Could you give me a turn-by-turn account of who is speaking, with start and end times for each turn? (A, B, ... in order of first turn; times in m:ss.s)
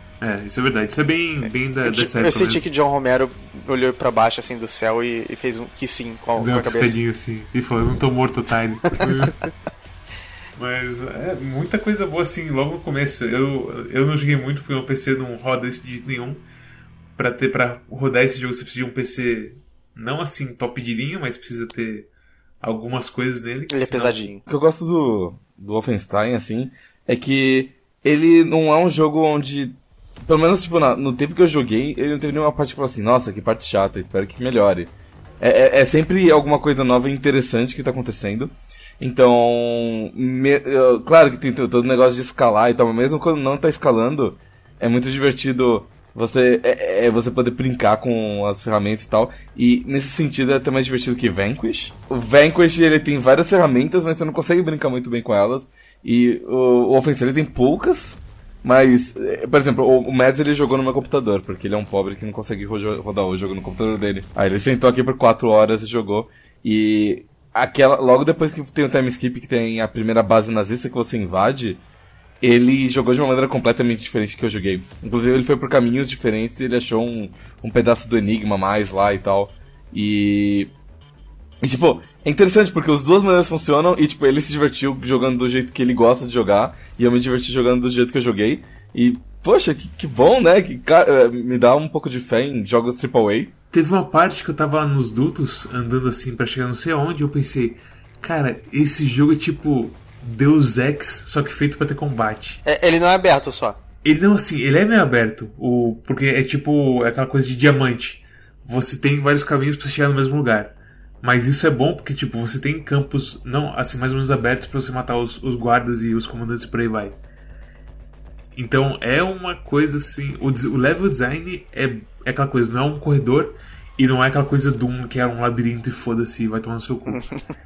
0:00.2-0:02.6 A
0:01.8-0:07.0 B
0:06.4-0:09.4 A
0:10.6-0:16.4 A
0:17.2-0:22.1 A
0:22.6-0:24.1 A
0:23.7-0:24.4 B
0:24.4-1:11.8 C
1:12.4-1:20.7 C
1:21.6-1:33.5 C
1:33.7-1:42.6 A
1:42.6-1:43.8 B
1:44.0-1:57.2 A
1:58.6-2:07.2 A
2:07.1-2:07.4 B